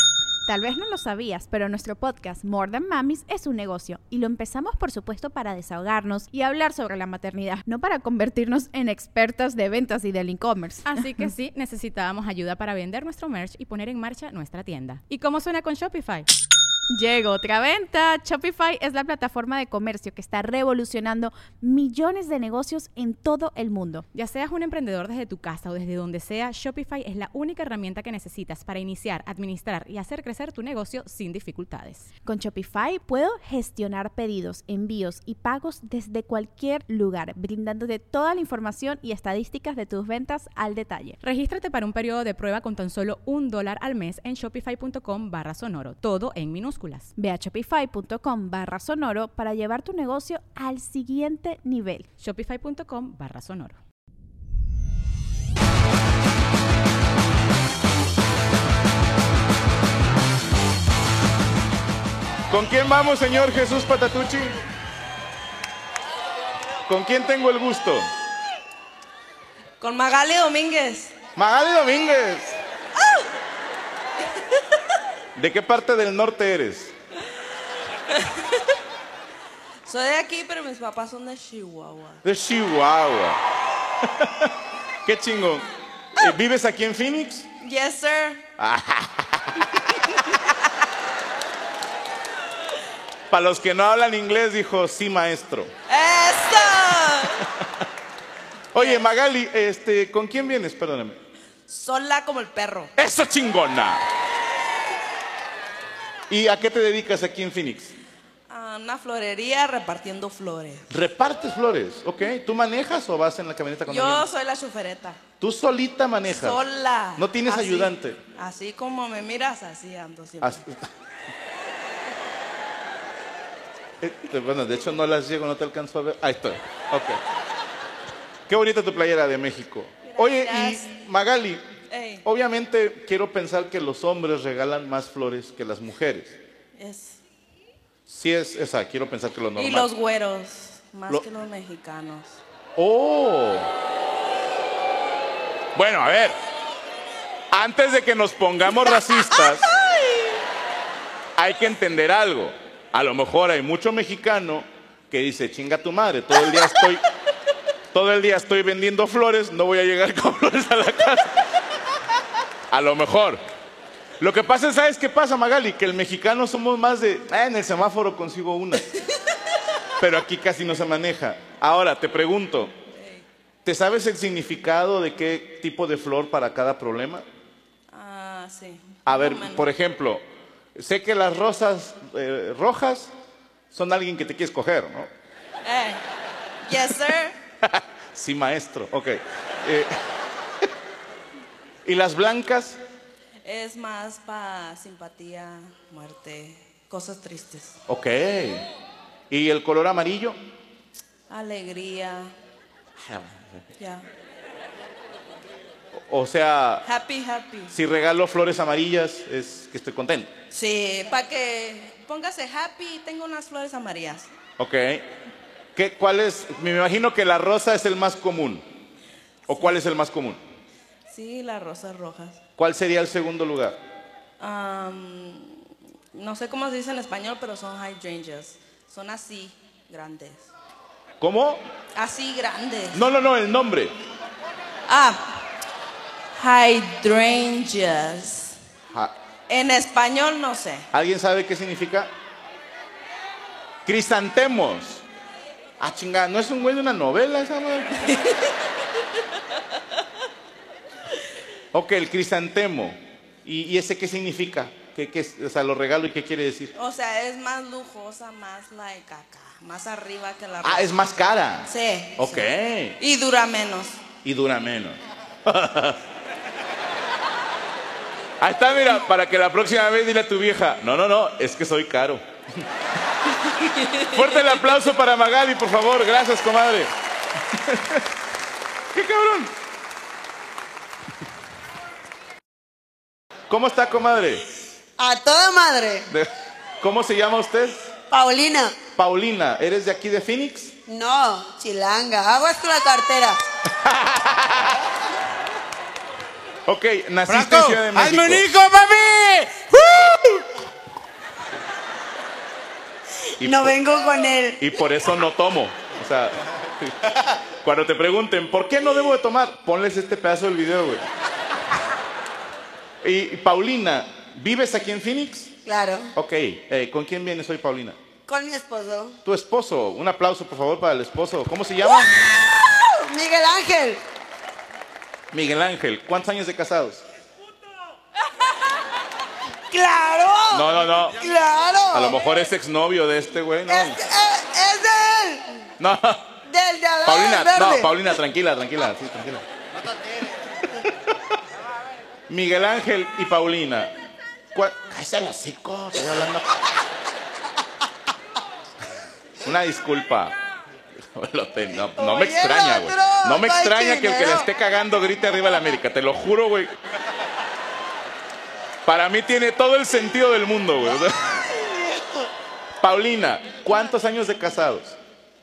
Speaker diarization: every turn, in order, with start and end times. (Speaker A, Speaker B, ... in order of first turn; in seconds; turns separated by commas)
Speaker A: 0.5-11.2, Speaker B: 10.8-16.3, Speaker A: 16.9-24.1, Speaker B: 24.1-32.1, Speaker A: 32.2-41.2, Speaker B: 41.2-47.1, Speaker A: 47.2-52.1, Speaker B: 52.2-53.8, Speaker C: 62.5-64.6, Speaker C: 66.9-68.1, Speaker D: 69.8-71.1, Speaker C: 71.4-72.6, Speaker C: 75.4-76.9, Speaker D: 78.1-78.6, Speaker D: 79.8-82.2, Speaker C: 82.2-83.4, Speaker C: 84.0-87.5, Speaker D: 87.6-88.4, Speaker C: 88.6-90.1, Speaker C: 93.3-95.7, Speaker D: 95.9-97.4, Speaker C: 97.4-97.7, Speaker C: 98.7-101.2, Speaker D: 98.8-99.0, Speaker D: 101.7-102.9, Speaker C: 103.0-104.0, Speaker C: 106.3-107.9, Speaker D: 108.5-110.9, Speaker C: 110.9-114.3, Speaker D: 113.9-115.2, Speaker C: 115.4-116.6, Speaker D: 116.3-120.6, Speaker C: 117.2-118.2, Speaker C: 120.4-120.8, Speaker C: 124.0-127.2, Speaker C: 128.5-131.7, Speaker D: 130.1-130.9, Speaker D: 131.9-132.2, Speaker C: 132.2-136.4, Speaker D: 136.8-137.2, Speaker C: 138.1-139.9, Speaker D: 139.6-142.4, Speaker C: 142.8-143.7, Speaker C: 145.8-146.4, Speaker C: 147.5-149.7, Speaker D: 149.5-150.2, Speaker C: 151.4-157.1, Speaker C: 157.9-161.4, Speaker C: 162.7-163.4, Speaker C: 164.2-168.9, Speaker C: 170.0-172.7, Speaker D: 172.9-173.3, Speaker C: 173.7-177.2, Speaker D: 177.9-179.7, Speaker C: 179.1-180.2, Speaker C: 180.8-183.1, Speaker C: 183.7-185.1, Speaker D: 185.7-186.0, Speaker D: 186.6-187.3, Speaker C: 187.6-190.0, Speaker C: 191.8-192.8, Speaker D: 193.4-197.8, Speaker C: 197.9-198.7, Speaker C: 199.3-200.4, Speaker D: 201.3-202.3, Speaker C: 203.0-203.6, Speaker D: 203.8-204.1, Speaker C: 205.9-206.9, Speaker D: 206.8-207.8, Speaker C: 207.7-210.3, Speaker D: 210.5-214.3, Speaker C: 214.6-215.1, Speaker C: 215.8-218.6, Speaker C: 219.5-220.4, Speaker D: 221.1-222.4, Speaker C: 222.6-223.8, Speaker D: 224.4-230.5, Speaker C: 231.2-231.6, Speaker D: 232.0-233.0, Speaker C: 232.9-233.9, Speaker D: 234.9-235.5, Speaker D: 236.3-238.6, Speaker D: 239.5-240.9, Speaker C: 240.9-242.1, Speaker C: 243.8-245.1, Speaker C: 245.8-248.2, Speaker D: 248.1-248.6, Speaker C: 251.7-256.7, Speaker D: 256.8-261.0, Speaker C: 260.6-263.0, Speaker D: 261.7-262.5, Speaker D: 263.0-264.0, Speaker C: 264.2-266.0, Speaker C: 268.4-272.6, Speaker D: 273.6-274.1, Speaker C: 274.0-276.9, Speaker C: 277.5-278.1, Speaker C: 278.9-279.5, Speaker C: 283.5-284.5, Speaker E: 285.0-286.1, Speaker C: 286.1-287.9, Speaker E: 288.1-288.8, Speaker C: 289.0-290.8, Speaker E: 290.9-293.4, Speaker C: 293.7-294.8, Speaker C: 296.7-298.5, Speaker F: 297.3-300.4, Speaker E: 303.4-304.8, Speaker C: 303.4-303.8, Speaker C: 304.6-311.1, Speaker C: 313.0-315.5, Speaker E: 315.7-316.1, Speaker C: 316.1-318.0, Speaker E: 318.3-319.2, Speaker C: 319.2-322.1, Speaker E: 321.8-324.0, Speaker C: 325.3-327.0, Speaker E: 329.7-332.4, Speaker C: 330.5-331.2, Speaker C: 331.9-334.0, Speaker E: 333.7-335.7, Speaker C: 335.8-336.4, Speaker E: 336.5-338.0, Speaker C: 337.0-339.5, Speaker C: 342.3-343.9, Speaker C: 344.5-346.6, Speaker C: 349.4-350.4, Speaker C: 351.0-356.8, Speaker E: 352.0-354.5, Speaker C: 358.9-361.4, Speaker E: 361.3-362.3, Speaker C: 362.8-365.0